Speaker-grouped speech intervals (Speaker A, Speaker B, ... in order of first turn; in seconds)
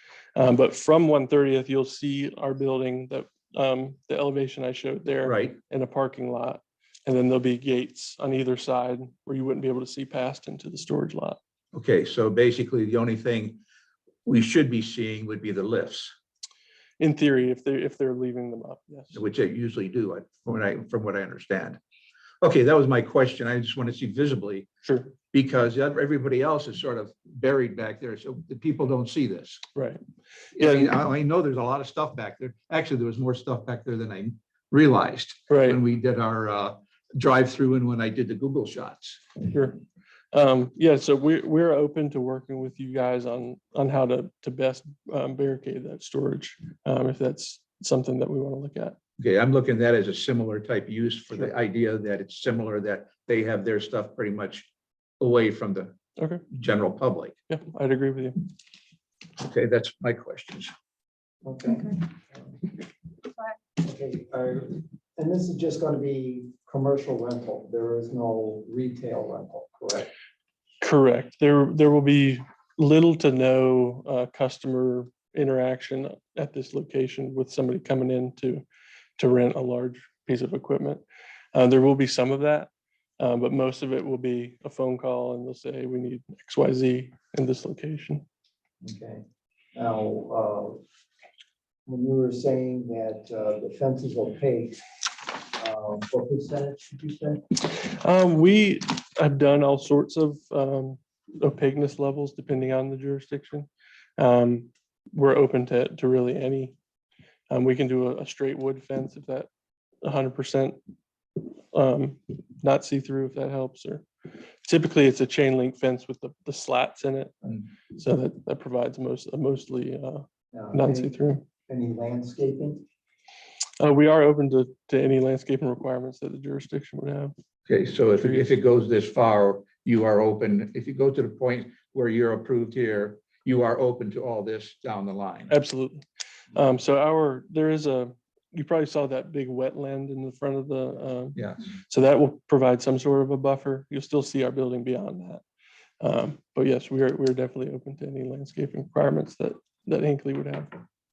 Speaker A: 0.4-11.4, 17.0-19.2, 24.8-25.1, 29.8-30.0, 30.6-30.9, 35.5-35.8, 39.4-39.8, 40.3-49.0, 56.2-56.5, 57.5-58.4, 70.8-78.6, 79.2-81.0, 81.5-88.2, 97.7-106.8, 107.5-109.5, 110.0-110.8, 111.7-114.1, 114.7-121.5, 123.8-127.3, 128.2-128.5, 135.5-145.4, 146.0-150.7
Speaker B: 5.2-5.6, 11.7-13.6, 14.2-16.1, 19.1-21.8, 22.4-24.7, 25.3-29.6, 30.6-39.2, 49.2-54.7, 55.2-55.9, 56.5-57.4, 59.4-60.7, 127.7-135.5
Speaker C: 61.4-62.5, 63.8-70.1, 88.8-89.2, 89.8-90.8, 91.9-94.8, 95.4-97.4, 120.5-121.1, 121.7-122.8